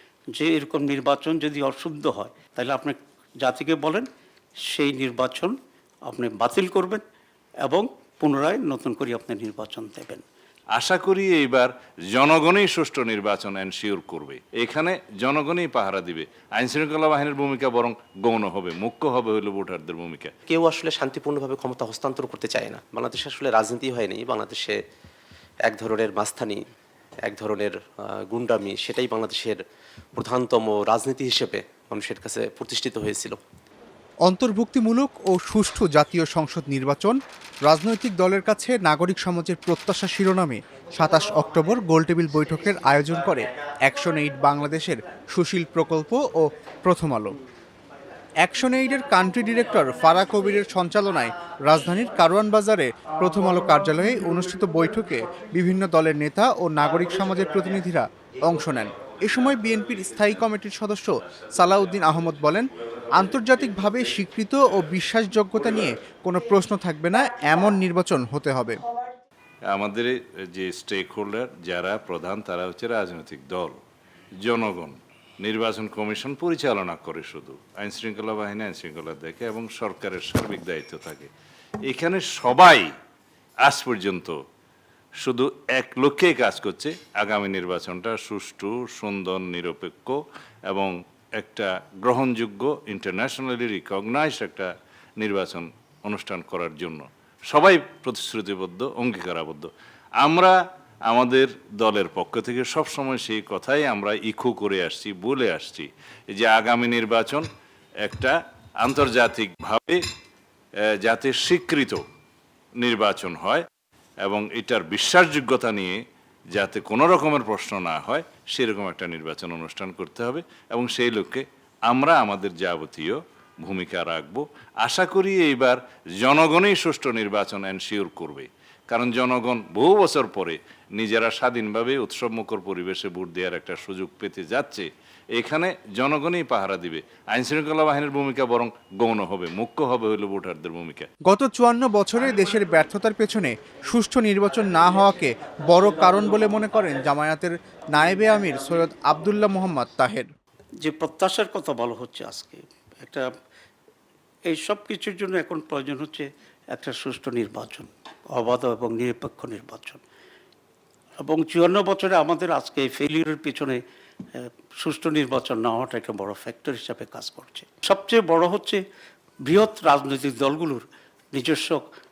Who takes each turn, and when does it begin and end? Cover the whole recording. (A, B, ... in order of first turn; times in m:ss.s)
0:00.3-0:04.1 A
0:04.7-0:05.6 A
0:06.1-0:07.0 A
0:07.6-0:10.2 A
0:10.8-0:20.3 B
0:20.5-0:24.8 C
0:25.7-0:26.6 C
0:27.3-0:27.8 C
0:28.3-0:29.6 C
0:30.2-0:33.4 C
0:34.3-0:47.3 D
0:48.4-1:08.8 D
1:09.7-1:13.8 B
1:14.4-1:21.3 B
1:21.9-1:22.9 B
1:23.6-1:24.4 B
1:25.2-1:40.6 B
1:41.1-1:47.5 B
1:48.0-1:50.0 B
1:51.0-1:52.0 B
1:52.8-1:53.6 B
1:54.2-1:56.0 B
1:56.6-2:21.1 B
2:21.3-2:30.3 D
2:30.8-2:33.3 A
2:34.5-2:40.0 A
2:41.2-2:43.8 A
2:44.3-2:48.8 A
2:49.4-2:51.8 A